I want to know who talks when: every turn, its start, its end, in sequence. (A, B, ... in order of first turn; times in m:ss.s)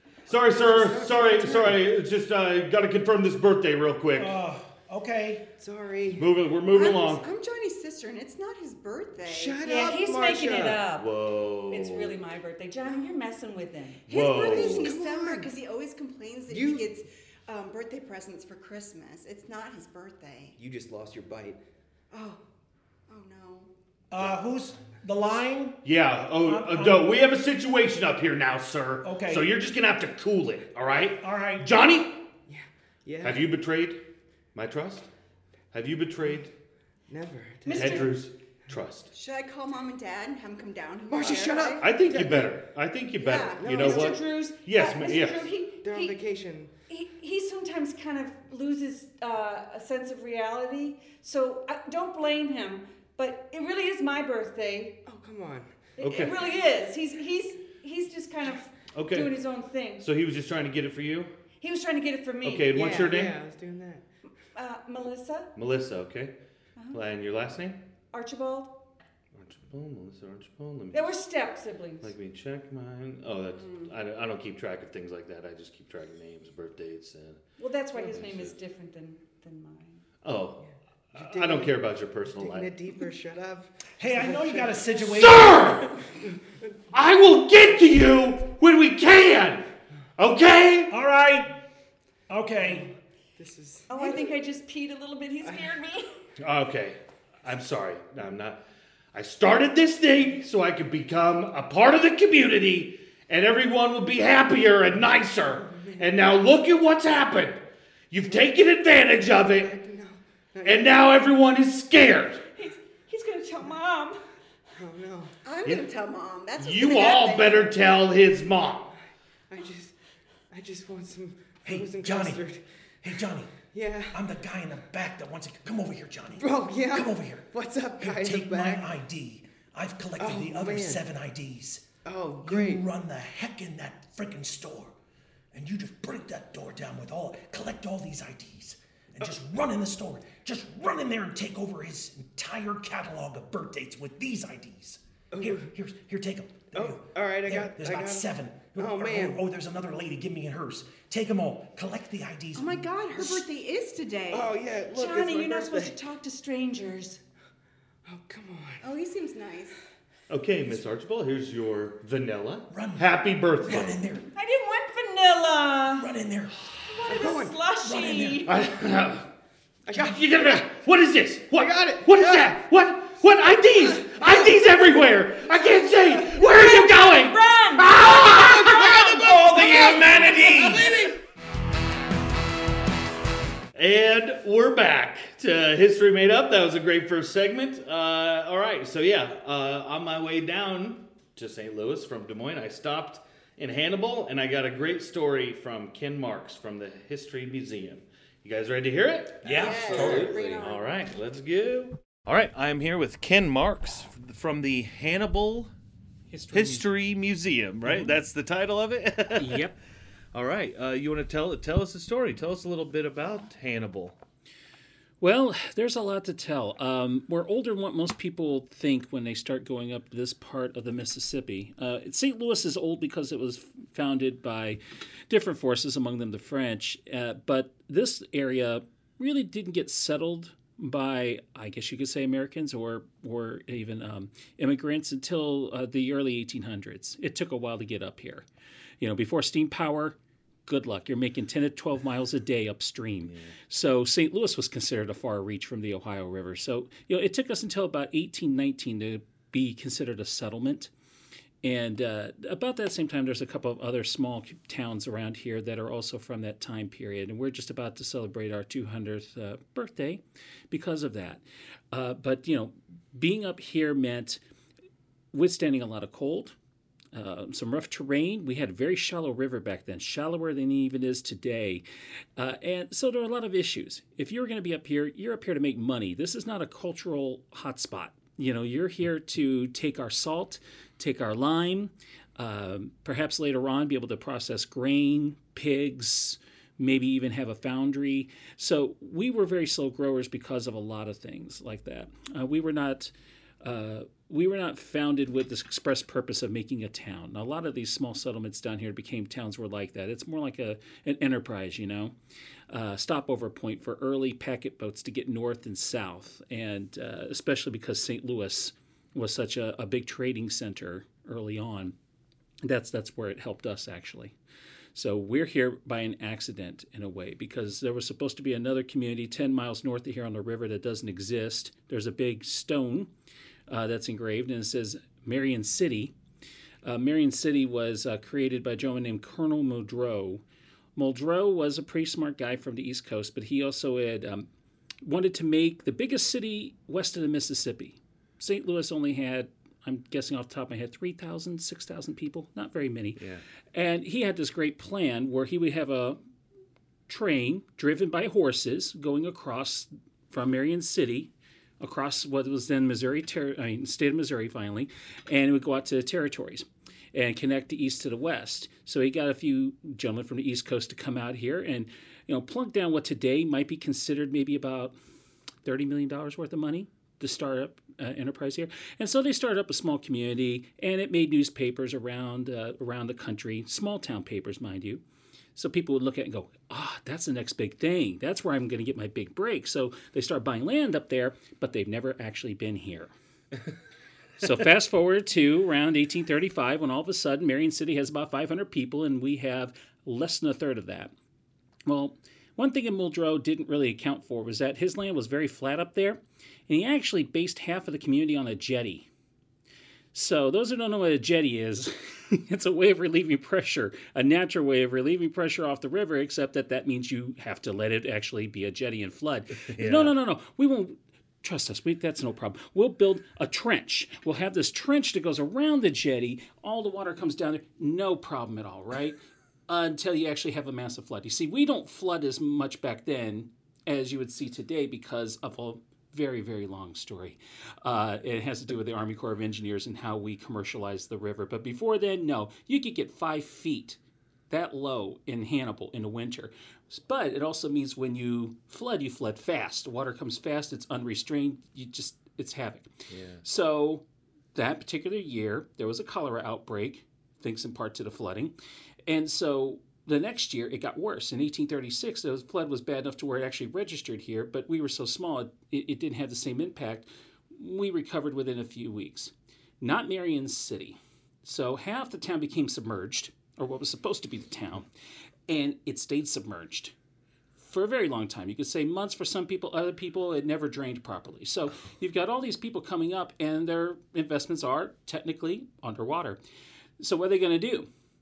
0:00.3-0:04.4 A
0:00.4-0:01.8 B
0:04.2-0:05.4 C
0:05.6-0:06.5 B
0:06.2-0:07.2 A
0:06.7-0:09.9 D
0:09.2-0:10.9 B
0:09.6-0:14.7 E
0:11.0-0:12.2 A
0:14.1-0:14.9 A
0:14.1-0:20.6 D
0:14.5-0:15.5 B
0:16.5-0:16.9 B
0:20.6-0:21.6 B
0:22.1-0:22.4 D
0:23.1-0:23.7 D
0:24.1-0:25.8 C
0:25.8-0:32.2 A
0:26.4-0:27.1 C
0:29.0-0:29.5 C
0:31.2-0:31.7 C
0:32.5-0:33.5 B
0:33.2-0:35.1 A
0:35.7-0:36.5 A
0:37.1-0:38.2 B
0:37.6-0:38.2 E
0:37.7-0:39.1 A
0:39.1-0:41.9 D
0:41.1-0:42.6 B
0:41.2-0:45.5 A
0:43.2-0:43.9 D
0:43.5-0:44.2 B
0:43.8-0:46.2 E
0:45.8-0:46.7 B
0:46.9-0:55.0 E
0:55.1-0:55.9 B
0:56.0-0:56.4 A
0:56.0-1:00.1 E
0:58.9-0:59.4 A
1:00.0-1:01.3 A
1:01.6-1:02.8 E
1:02.4-1:03.4 A
1:02.7-1:04.0 B
1:04.5-1:05.5 E
1:05.6-1:06.4 A
1:06.9-1:07.8 A
1:08.1-1:08.8 E
1:09.3-1:11.2 A
1:10.9-1:12.1 E
1:12.0-1:17.4 A
1:17.6-1:20.0 E
1:18.0-1:18.6 A
1:20.2-1:22.8 A
1:20.6-1:26.7 B
1:24.0-1:25.9 C
1:25.0-1:26.0 A
1:26.9-1:31.0 A
1:30.9-1:31.6 C
1:32.3-1:32.9 C
1:32.6-1:34.3 B
1:33.9-1:36.1 E
1:36.4-1:38.6 A
1:39.1-1:49.8 A
1:45.5-1:46.1 B
1:49.3-1:50.9 B
1:50.6-1:52.4 A
1:52.6-1:54.2 E
1:54.7-1:55.4 B
1:55.4-1:57.7 D
1:56.6-1:59.0 A
1:59.5-2:00.0 B
2:00.5-2:02.6 B
2:01.6-2:02.4 C
2:03.0-2:03.6 C
2:03.7-2:04.2 B
2:04.1-2:11.9 C
2:06.4-2:08.9 B
2:10.2-2:11.0 B
2:12.0-2:12.8 B
2:12.4-2:15.0 C
2:15.5-2:33.4 C
2:25.3-2:25.7 B
2:26.7-2:29.4 B
2:32.6-2:34.6 D
2:34.3-2:36.0 B
2:34.9-2:37.2 E
2:38.0-2:38.8 B
2:38.8-2:39.8 D
2:40.3-2:44.0 A
2:42.7-2:44.3 C
2:44.3-2:46.1 E
2:45.9-2:46.5 C
2:46.8-2:48.5 E
2:47.1-2:47.6 B
2:47.8-2:48.5 C
2:48.5-2:49.3 A
2:49.9-2:50.6 B
2:49.9-3:00.6 A
2:51.5-2:52.5 B
2:53.9-2:54.3 B
2:56.3-2:59.2 E
2:58.8-3:01.1 C
2:58.9-3:01.2 B
3:03.8-3:25.7 A
3:19.4-3:20.3 C
3:19.4-3:20.6 B
3:19.5-3:21.0 D
3:26.3-3:26.8 F
3:26.5-3:29.7 A
3:27.8-3:28.2 F
3:29.4-3:29.8 F
3:30.3-3:34.2 A
3:35.2-3:58.5 F
3:59.0-4:10.9 F
4:11.6-4:24.4 F
4:25.3-4:26.6 F
4:27.1-4:31.8 F
4:32.4-5:02.1 F
5:02.7-5:12.0 F
5:12.6-5:14.3 F
5:14.9-5:23.1 F
5:23.7-5:26.1 F
5:26.8-5:30.4 F
5:31.0-5:34.5 F
5:35.0-5:46.2 F
5:47.1-6:05.0 F
6:05.6-6:15.0 F
6:15.6-6:23.1 F
6:24.4-6:31.1 F
6:31.9-6:39.1 F
6:40.1-6:59.2 F
6:49.7-6:50.1 A
6:59.7-7:14.0 F
7:14.5-7:24.0 F
7:23.1-7:23.4 A
7:24.6-7:28.5 F
7:29.1-7:44.9 F
7:45.5-7:46.9 F
7:47.6-7:56.4 F
7:57.0-7:57.9 F